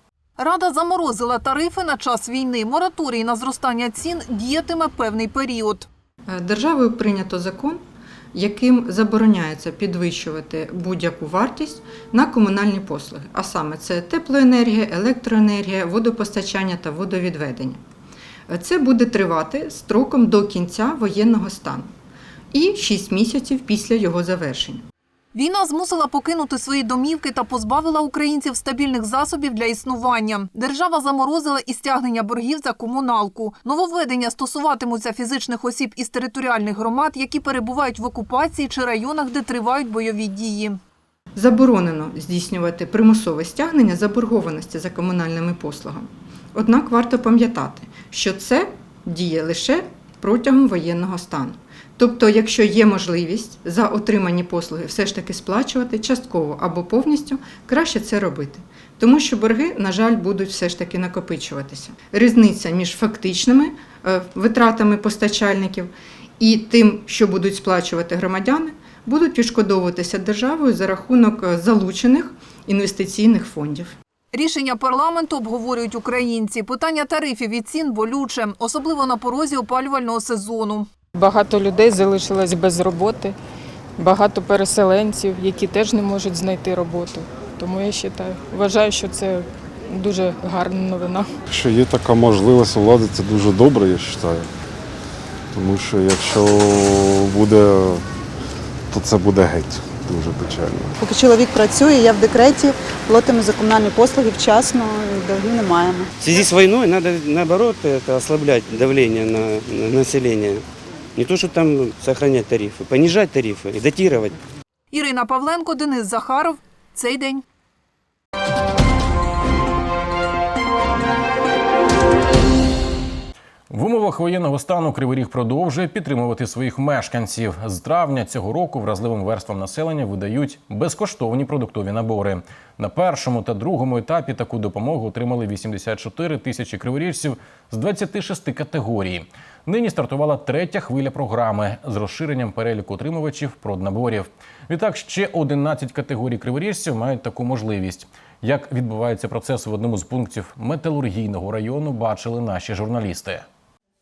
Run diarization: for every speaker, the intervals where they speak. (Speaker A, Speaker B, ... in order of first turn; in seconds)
Speaker A: 0.4-5.9, 25.3-40.8, 74.3-80.9, 114.9-117.4
Speaker B: 6.3-7.8, 8.3-17.8, 18.5-21.9, 22.5-24.8, 41.4-74.0
Speaker C: 81.3-83.3, 84.2-87.2, 87.7-89.2
Speaker D: 91.5-94.5, 95.5-98.0, 98.9-100.9
Speaker E: 101.0-106.0
Speaker F: 106.2-110.6, 111.2-114.4
Speaker G: 123.7-153.4